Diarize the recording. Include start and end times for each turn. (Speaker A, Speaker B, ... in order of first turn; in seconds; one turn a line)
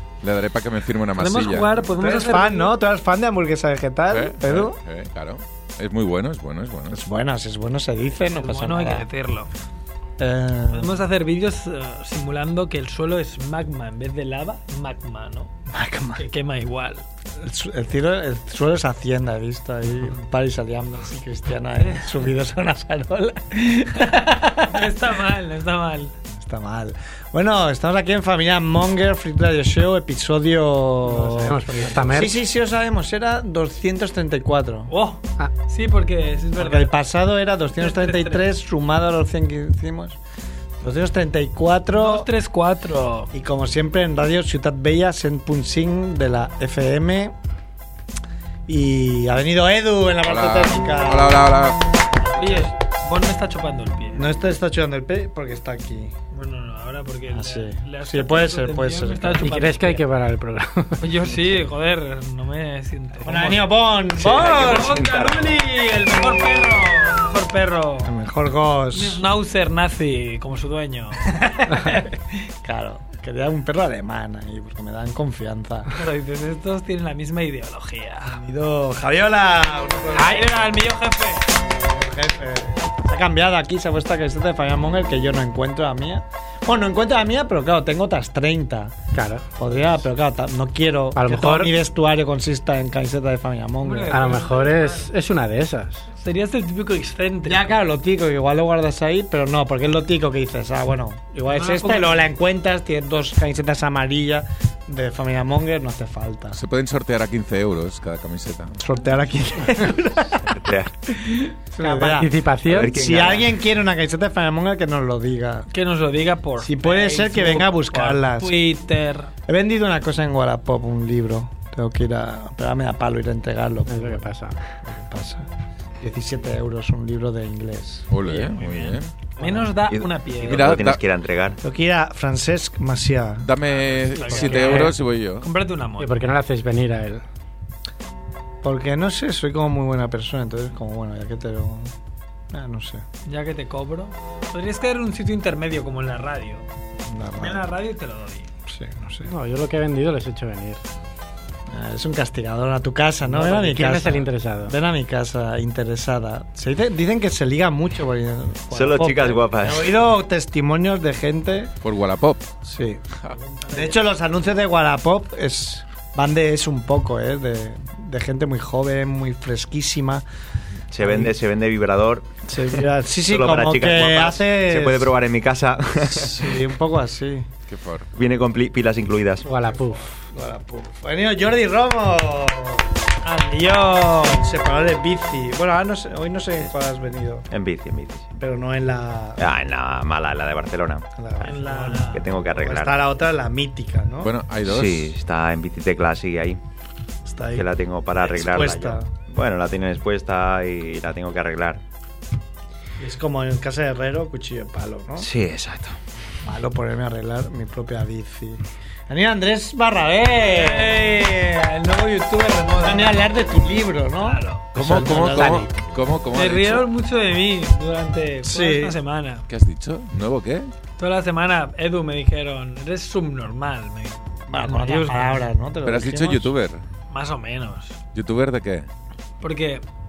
Speaker A: 0.2-1.8
Speaker B: 1.2-2.7
Speaker C: 2.0-4.8
Speaker A: 4.1-7.0
Speaker C: 6.9-9.1
Speaker B: 8.3-9.5
Speaker C: 10.2-11.0
Speaker B: 10.7-15.5
Speaker C: 15.7-16.2
Speaker B: 16.2-17.0
Speaker C: 17.4-24.8
Speaker B: 24.0-26.1
Speaker C: 26.3-34.9
Speaker D: 31.1-32.4
Speaker B: 34.9-37.0
Speaker C: 36.6-40.2
Speaker B: 37.8-38.4
Speaker C: 40.8-42.3
Speaker B: 41.9-43.3
Speaker C: 43.3-47.3
Speaker C: 48.7-52.7
Speaker A: 50.2-51.8
Speaker B: 52.3-54.3
Speaker C: 54.1-56.1
Speaker B: 56.3-60.0
Speaker C: 57.3-59.6
Speaker D: 59.4-61.1
Speaker B: 61.0-68.1
Speaker C: 63.2-65.1
Speaker E: 64.3-65.6
Speaker C: 68.0-69.2
Speaker B: 68.9-72.1
Speaker C: 72.6-75.9
Speaker B: 75.9-78.4
Speaker C: 78.3-80.7
Speaker B: 80.1-81.5
Speaker C: 81.7-89.0
Speaker D: 89.1-89.5
Speaker C: 89.6-94.3
Speaker D: 91.2-91.7
Speaker B: 93.8-95.1
Speaker D: 94.1-96.1
Speaker B: 96.1-97.7
Speaker C: 97.5-106.6
Speaker B: 101.5-102.2
Speaker A: 106.5-108.8
Speaker C: 108.8-115.7
Speaker E: 110.6-110.9
Speaker D: 111.8-113.0
Speaker E: 112.7-113.6
Speaker B: 115.7-119.3
Speaker C: 116.6-118.5
Speaker C: 119.5-124.2
Speaker D: 123.9-124.6
Speaker C: 124.8-125.5
Speaker C: 126.0-128.1
Speaker A: 128.1-129.1
Speaker B: 128.2-130.8
Speaker D: 129.4-129.7
Speaker E: 129.9-131.6
Speaker A: 130.4-131.0
Speaker C: 131.6-135.0
Speaker A: 133.4-135.5
Speaker B: 134.1-136.1
Speaker D: 136.0-137.2
Speaker C: 138.6-141.9
Speaker C: 142.5-143.0
Speaker B: 143.2-146.7
Speaker C: 147.1-147.7
Speaker B: 147.4-148.5
Speaker C: 148.7-149.3
Speaker D: 149.3-150.8
Speaker C: 151.7-161.7
Speaker D: 153.3-154.8
Speaker E: 158.7-160.0
Speaker A: 161.8-162.6
Speaker C: 162.7-163.0
Speaker C: 163.6-170.2
Speaker E: 170.9-172.4
Speaker C: 171.0-171.3
Speaker C: 172.5-175.1
Speaker E: 173.2-176.5
Speaker C: 176.1-177.5
Speaker A: 177.7-178.1
Speaker E: 178.1-179.5
Speaker D: 179.4-180.1
Speaker C: 180.2-182.9
Speaker B: 183.2-184.4
Speaker C: 184.2-187.5
Speaker E: 187.5-188.4
Speaker C: 188.4-189.4
Speaker E: 189.4-191.5
Speaker C: 191.2-194.3
Speaker B: 191.4-192.3
Speaker E: 192.1-193.0
Speaker A: 194.2-195.1
Speaker E: 194.6-196.6
Speaker C: 197.3-197.7
Speaker E: 197.5-201.8
Speaker C: 198.2-199.1
Speaker C: 203.0-205.3
Speaker E: 205.2-206.0
Speaker C: 206.4-211.2
Speaker B: 210.4-213.3
Speaker C: 212.7-215.7
Speaker B: 214.2-214.7
Speaker A: 214.8-216.9
Speaker D: 214.8-215.7
Speaker B: 216.3-219.4
Speaker C: 218.4-219.0
Speaker A: 219.5-220.7
Speaker B: 221.0-225.5
Speaker C: 224.5-226.5
Speaker A: 225.8-226.8
Speaker B: 227.1-228.0
Speaker A: 228.1-228.9
Speaker B: 229.4-229.8